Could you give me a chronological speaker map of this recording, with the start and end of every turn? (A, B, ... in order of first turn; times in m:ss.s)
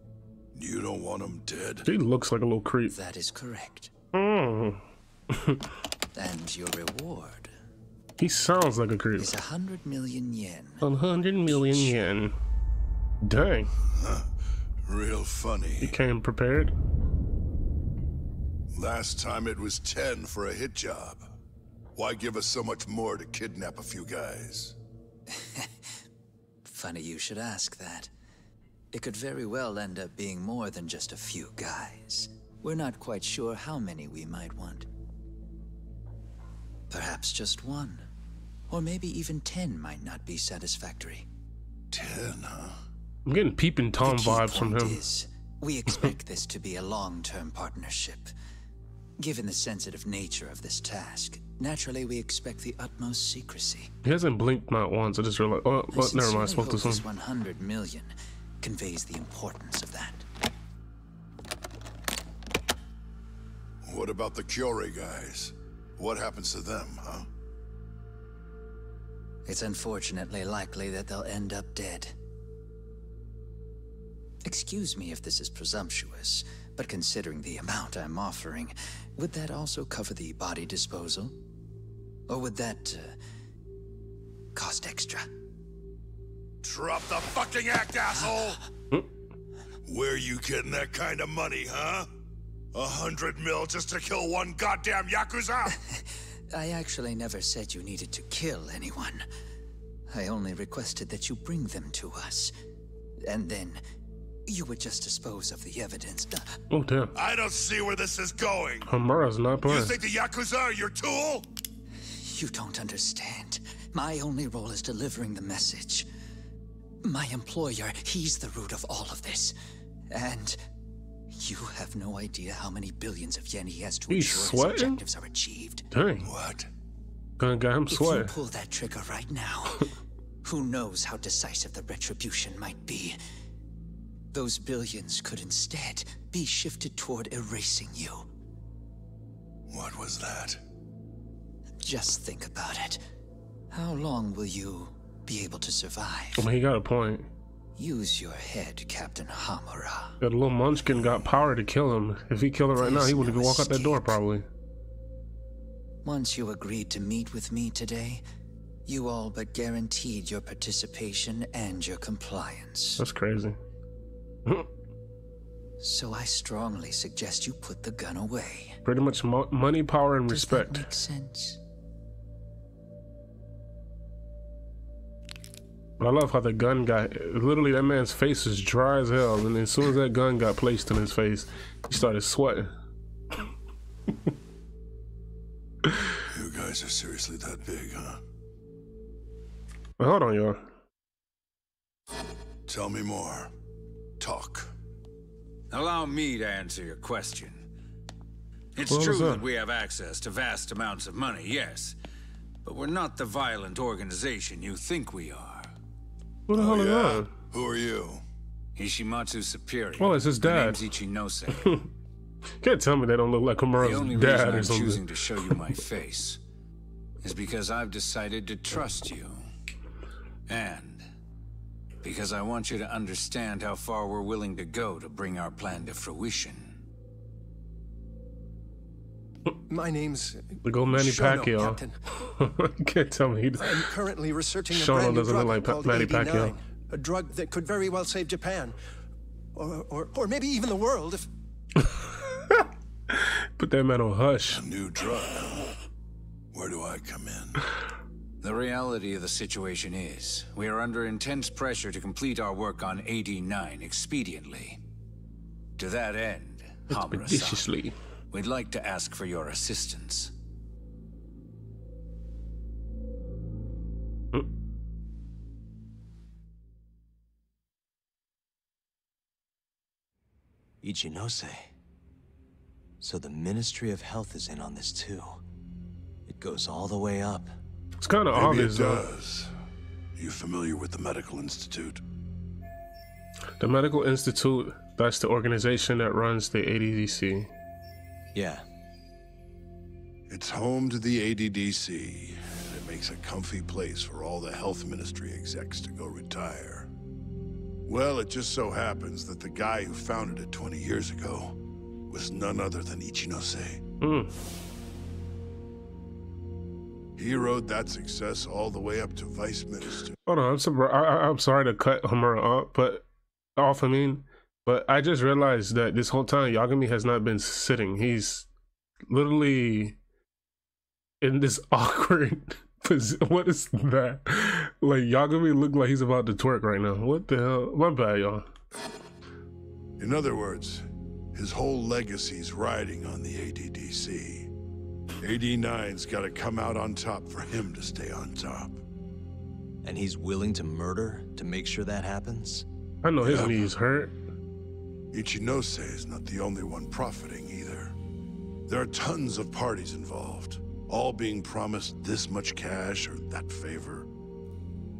0:00.5-0:01.9 A
0:01.8-0:02.9 B
0:02.9-0:03.9 C
0:04.1-0:05.6 B
0:06.1-0:07.5 C
0:08.2-0:09.4 B
0:09.2-0:10.8 C
0:10.8-0:12.3 B
0:11.5-0:11.9 C
0:13.2-0:13.7 B
0:13.9-0:14.3 A
0:14.8-0:15.9 A
0:15.8-0:16.7 B
0:18.7-0:21.3 A
0:21.9-0:24.8 A
0:25.3-0:25.7 C
0:26.6-0:28.1 C
0:28.9-0:34.9 C
0:36.9-0:38.1 C
0:38.7-0:41.3 C
0:41.9-0:42.8 A
0:43.3-0:45.0 B
0:44.0-0:48.3 C
0:49.2-0:53.9 C
0:54.0-0:57.0 B
0:55.9-1:00.2 C
1:03.8-1:07.3 A
1:09.4-1:12.1 C
1:14.4-1:21.4 C
1:22.3-1:23.2 C
1:24.5-1:25.3 C
1:26.6-1:28.6 A
1:29.8-1:32.1 A
1:32.7-1:35.7 A
1:35.7-1:39.2 C
1:40.1-1:42.5 C
1:43.2-1:43.8 C
1:44.5-1:46.6 C
1:46.7-1:47.1 B
1:47.2-1:48.9 A
1:48.8-1:50.0 B
1:49.6-1:51.4 A
1:52.2-1:56.1 C
1:57.0-1:59.5 C
2:00.1-2:00.6 C
2:01.3-2:05.9 C
2:04.1-2:05.0 B
2:05.9-2:06.3 B
2:06.2-2:06.7 A
2:07.4-2:08.3 B
2:07.9-2:09.9 C
2:10.4-2:13.2 C
2:14.3-2:18.3 C
2:19.7-2:20.6 A
2:21.8-2:23.0 C
2:23.7-2:26.5 C
2:26.4-2:27.3 B
2:27.8-2:30.2 C
2:30.2-2:34.4 B
2:32.8-2:34.2 C
2:36.0-2:38.2 C
2:38.8-2:43.0 C
2:43.0-2:43.6 B
2:45.8-2:48.8 C
2:48.8-2:50.9 B
2:50.3-2:51.6 C
2:56.0-3:02.7 B
3:06.2-3:08.2 A
3:10.0-3:10.6 B
3:12.7-3:13.5 A
3:14.2-3:14.7 A
3:15.7-3:17.6 D
3:18.8-3:22.0 D
3:18.9-3:19.4 B
3:22.6-3:25.6 D
3:26.5-3:27.3 B
3:26.5-3:28.2 A
3:28.8-3:31.6 D
3:30.0-3:30.8 B
3:32.6-3:35.0 B
3:33.8-3:36.4 D
3:37.2-3:39.4 D
3:40.5-3:41.0 D
3:42.0-3:46.8 D
3:49.7-3:52.0 E
3:50.6-3:53.9 B
3:53.6-3:58.8 E
3:54.7-3:56.5 B
3:59.5-4:01.3 E
4:01.8-4:04.6 B
4:04.5-4:05.7 A
4:06.5-4:07.7 A
4:08.4-4:14.8 D
4:15.8-4:17.5 D
4:16.9-4:17.9 B
4:18.3-4:20.3 D
4:30.8-4:31.7 F
4:33.0-4:35.4 F
4:36.3-4:37.5 F
4:38.0-4:39.1 B
4:38.3-4:39.5 A
4:40.2-4:42.0 A
4:43.6-4:47.5 B
4:48.3-4:48.6 F
4:50.3-4:56.9 A
4:57.9-5:01.6 A
5:02.1-5:03.8 A
5:04.0-5:04.3 B
5:07.2-5:10.1 A
5:10.3-5:13.0 B
5:13.6-5:18.5 B
5:19.1-5:20.0 B
5:21.2-5:28.4 B
5:30.0-5:34.5 A
5:35.2-5:38.8 A
5:39.8-5:42.6 F
5:43.0-5:44.2 B
5:43.2-5:43.6 A
5:45.1-5:47.9 A
5:48.7-5:54.1 A